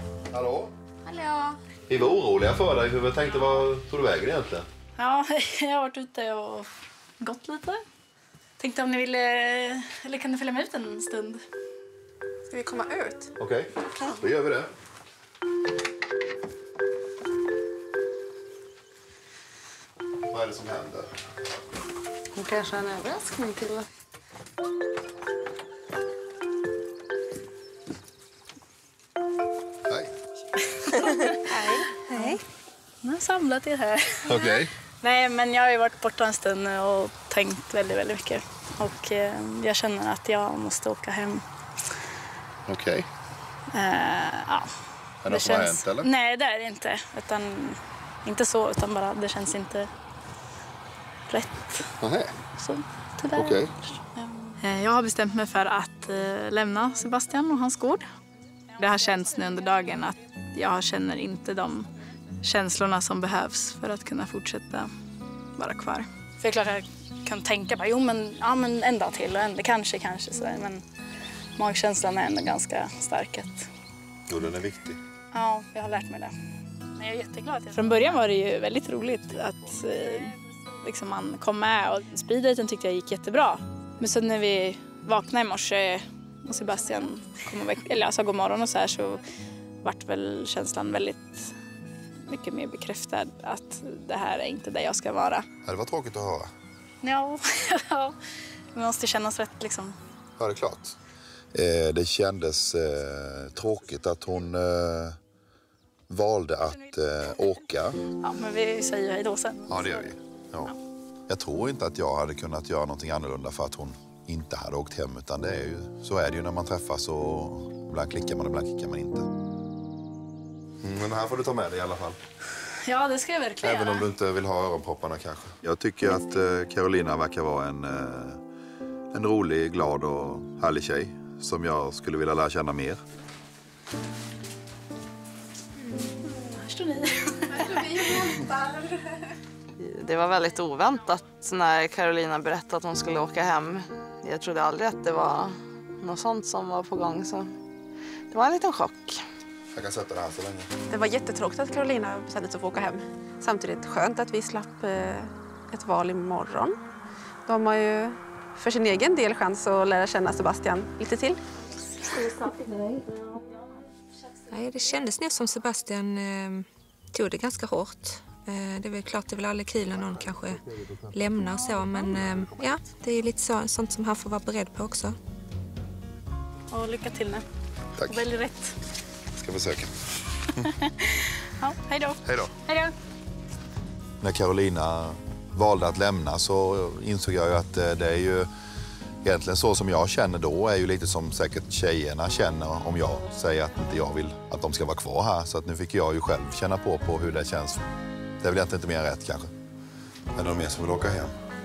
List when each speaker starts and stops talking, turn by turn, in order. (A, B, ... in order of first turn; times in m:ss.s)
0:00.3-0:00.7 A
0:01.0-0:01.6 B
0:01.9-0:04.6 A
0:05.0-0:06.7 B
0:07.2-0:07.8 B
0:08.6-0:11.4 B
0:12.5-0:13.3 C
0:13.4-0:14.7 A
0:20.3-0:21.1 A
0:22.3-0:23.9 D
0:29.9-0:30.1 A
0:30.8-0:31.8 B
0:31.5-0:31.8 C
0:31.9-0:32.4 E
0:33.0-0:34.4 B
0:34.2-0:34.7 A
0:35.0-0:41.4 B
0:42.7-0:43.1 A
0:43.7-0:44.7 B
0:45.2-0:46.1 A
0:45.2-0:49.9 B
0:51.3-0:51.9 B
0:52.0-0:52.4 A
0:52.6-0:53.6 B
0:53.3-0:53.7 A
0:54.2-0:58.1 B
0:58.8-1:01.9 B
1:02.4-1:04.9 B
1:05.6-1:10.8 B
1:11.6-1:13.7 B
1:14.3-1:15.0 A
1:15.3-1:16.3 B
1:17.0-1:29.2 B
1:29.8-1:31.5 B
1:32.2-1:35.5 B
1:35.6-1:36.5 A
1:37.0-1:38.2 B
1:38.7-1:40.0 B
1:40.4-1:41.0 A
1:41.5-1:45.2 A
1:46.1-1:48.0 A
1:48.2-1:50.1 B
1:49.7-1:50.7 A
1:51.3-1:59.3 A
2:00.8-2:02.2 A
2:02.8-2:04.1 B
2:03.6-2:08.4 A
2:09.1-2:13.0 A
2:16.3-2:17.8 B
2:17.5-2:19.2 C
2:19.8-2:27.5 D
2:28.3-2:29.2 D
2:29.7-2:30.7 A
2:30.9-2:36.8 C
2:37.4-2:41.4 C
2:42.1-2:42.7 B
2:44.5-2:50.6 E
2:50.0-2:51.2 A
2:51.1-2:55.2 E
2:51.4-2:52.2 B
2:56.7-2:57.4 B
2:58.0-2:58.2 A
2:58.0-2:58.7 B
2:59.4-3:00.6 A
3:00.6-3:02.9 B
3:02.2-3:02.5 A
3:04.2-3:08.5 A
3:09.2-3:17.8 A
3:18.4-3:19.5 A
3:20.3-3:21.3 A